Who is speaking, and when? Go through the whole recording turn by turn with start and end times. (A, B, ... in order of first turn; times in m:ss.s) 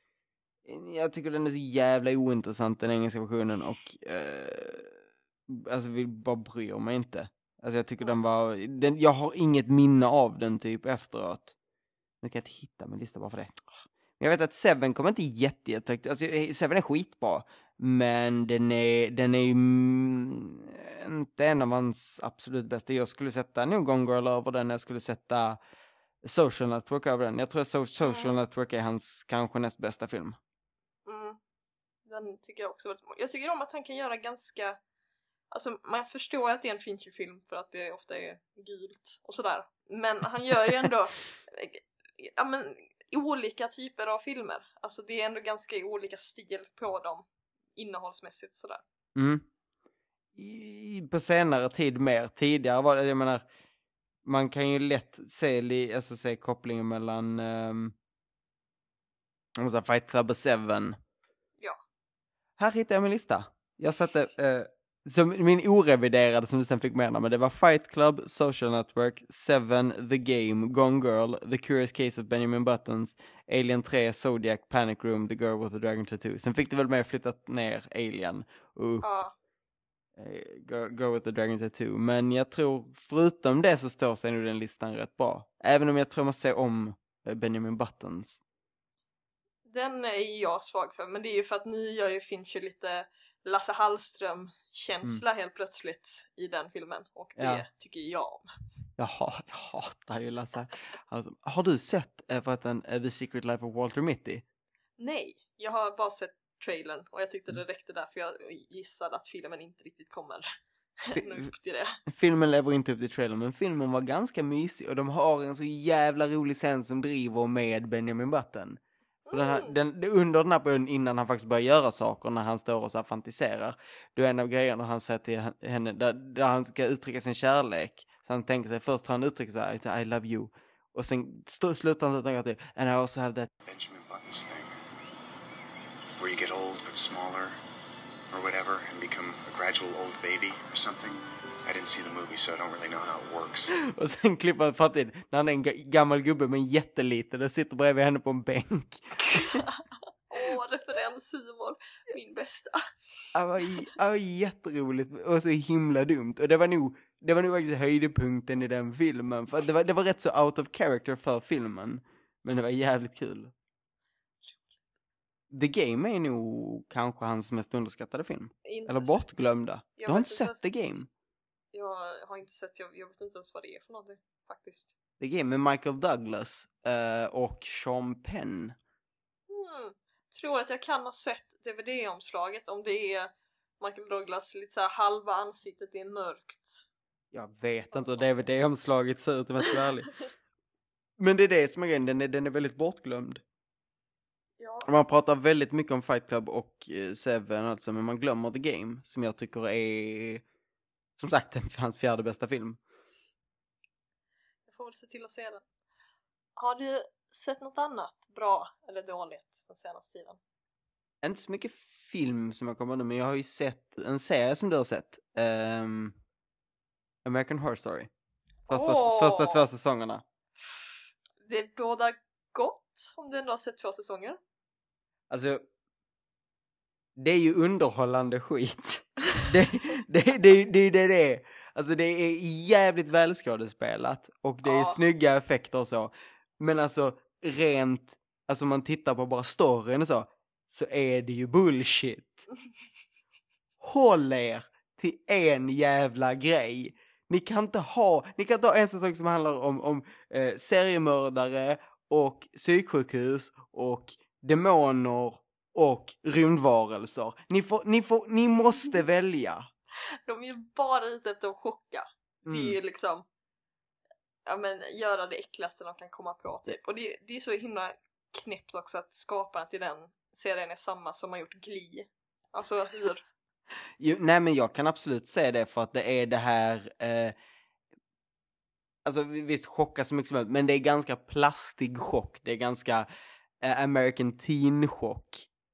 0:00.6-0:11.5 A
0:12.2-0:25.6 A
0:26.2-0:30.4 A
0:28.0-0:28.3 B
0:31.0-0:31.4 B
0:32.0-0:34.8 B
0:35.5-0:47.2 B
0:47.8-0:48.8 B
0:49.2-0:49.5 A
0:50.3-0:53.4 A
0:54.2-0:57.9 A
0:59.6-1:01.0 A
1:02.6-1:19.0 A
1:19.0-1:19.3 B
1:20.2-1:28.4 A
1:29.6-1:38.4 B
1:37.4-1:37.6 A
1:39.0-1:44.4 A
1:45.0-1:50.5 B
1:51.0-1:52.0 B
1:51.1-1:51.5 A
1:52.0-1:58.8 A
1:59.3-1:59.7 B
1:59.3-2:13.5 A
2:13.6-2:14.8 C
2:16.2-2:17.5 C
2:18.3-2:23.7 C
2:23.8-2:29.6 A
2:29.3-2:29.7 B
2:30.3-2:33.3 B
2:33.3-2:43.5 A
2:44.5-2:44.8 B
2:45.5-2:51.1 A
2:48.6-2:50.7 B
2:51.7-2:54.9 B
2:55.2-2:58.8 A
2:59.5-3:06.8 B
3:07.3-3:10.2 A
3:11.2-3:13.4 A
3:14.6-3:14.9 B
3:14.8-3:20.4 A
3:21.2-3:22.8 A
3:24.7-3:25.6 B
3:26.6-3:30.4 B
3:31.2-3:36.2 A
3:37.2-3:38.1 A
3:38.7-3:40.2 A
3:38.7-3:39.6 B
3:41.4-3:44.4 B
3:45.3-3:45.6 A
3:47.2-4:02.5 A
3:54.6-3:55.0 B
4:03.8-4:19.7 A
4:20.2-4:23.2 B
4:22.4-4:22.8 A
4:24.4-4:33.2 B
4:34.0-4:37.3 A
4:39.0-4:43.1 A
4:43.6-4:45.5 A